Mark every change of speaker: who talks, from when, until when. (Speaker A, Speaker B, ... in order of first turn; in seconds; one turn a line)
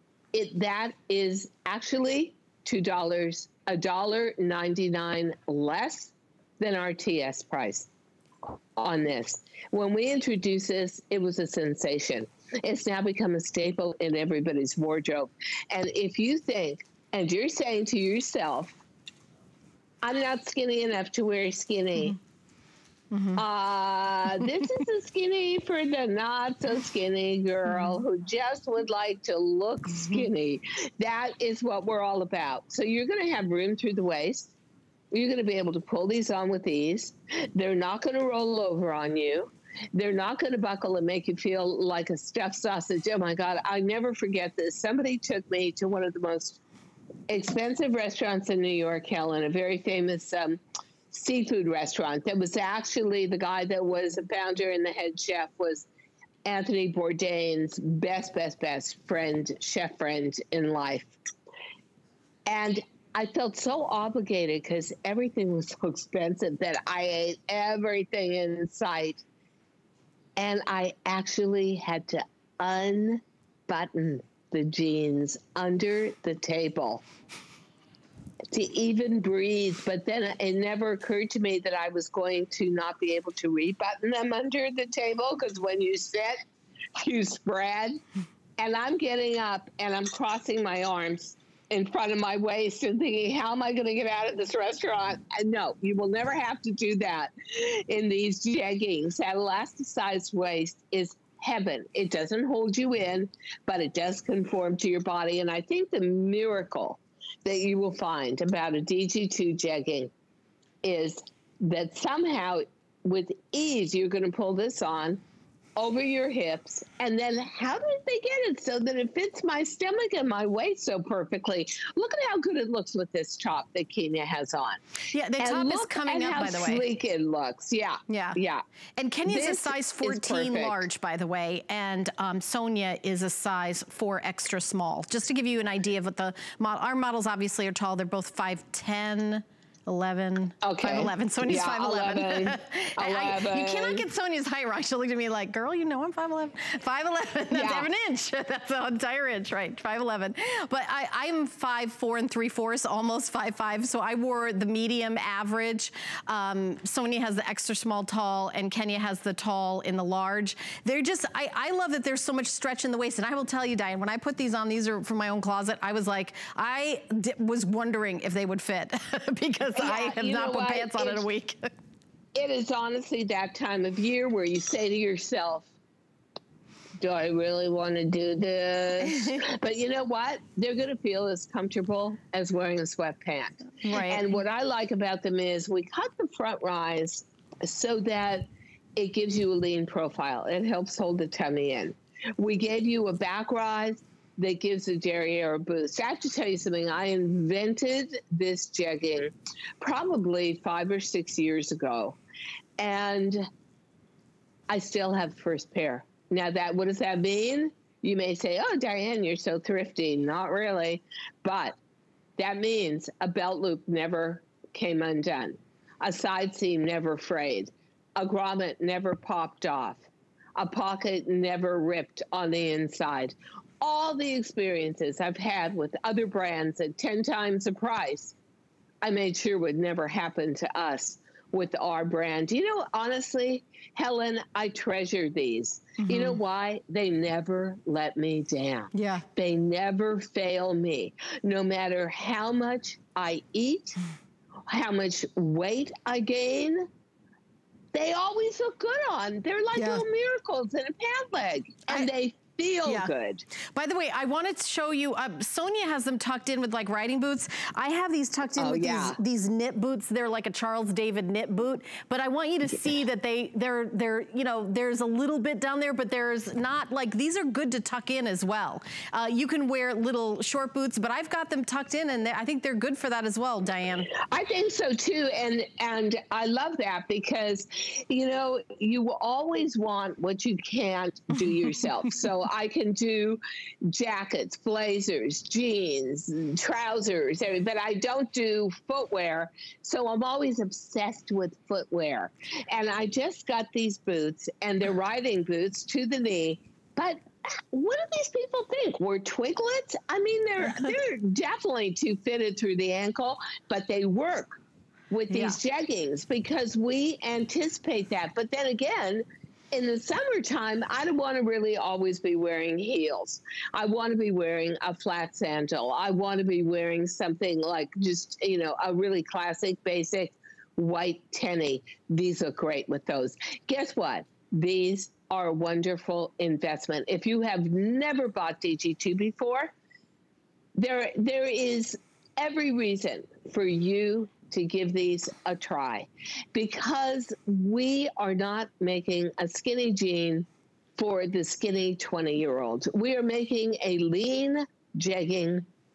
Speaker A: 0.3-7.9
Speaker A: 8.5-18.8
Speaker A: 20.0-22.2
Speaker B: 23.1-23.4
Speaker A: 23.4-34.5
Speaker B: 24.4-24.8
Speaker B: 27.7-28.0
Speaker A: 35.1-46.6
Speaker A: 47.3-50.6
Speaker A: 51.1-55.9
Speaker A: 56.5-61.2
Speaker A: 62.5-69.2
Speaker A: 70.4-77.0
Speaker A: 78.5-86.4
Speaker A: 87.0-88.0
Speaker A: 88.6-110.1
Speaker A: 110.8-115.2
Speaker A: 115.8-124.8
Speaker B: 125.1-126.9
Speaker A: 125.4-128.6
Speaker B: 128.1-128.4
Speaker B: 129.0-171.7
Speaker A: 129.3-130.9
Speaker A: 140.6-144.1
Speaker A: 147.5-147.9
Speaker A: 169.8-171.3
Speaker A: 172.3-175.7
Speaker A: 177.0-202.2
Speaker B: 179.1-179.4
Speaker B: 183.8-184.2
Speaker A: 202.8-203.4
Speaker A: 204.7-211.8
Speaker A: 212.4-228.4
Speaker A: 229.0-244.0
Speaker B: 236.0-236.4
Speaker B: 238.9-239.2
Speaker A: 244.7-246.9
Speaker A: 247.9-253.4
Speaker B: 249.8-250.0
Speaker B: 252.8-253.1
Speaker B: 253.7-274.1
Speaker A: 258.6-259.2
Speaker A: 274.3-304.6
Speaker B: 281.4-281.9
Speaker A: 305.1-329.7
Speaker B: 305.3-305.6
Speaker A: 330.8-345.6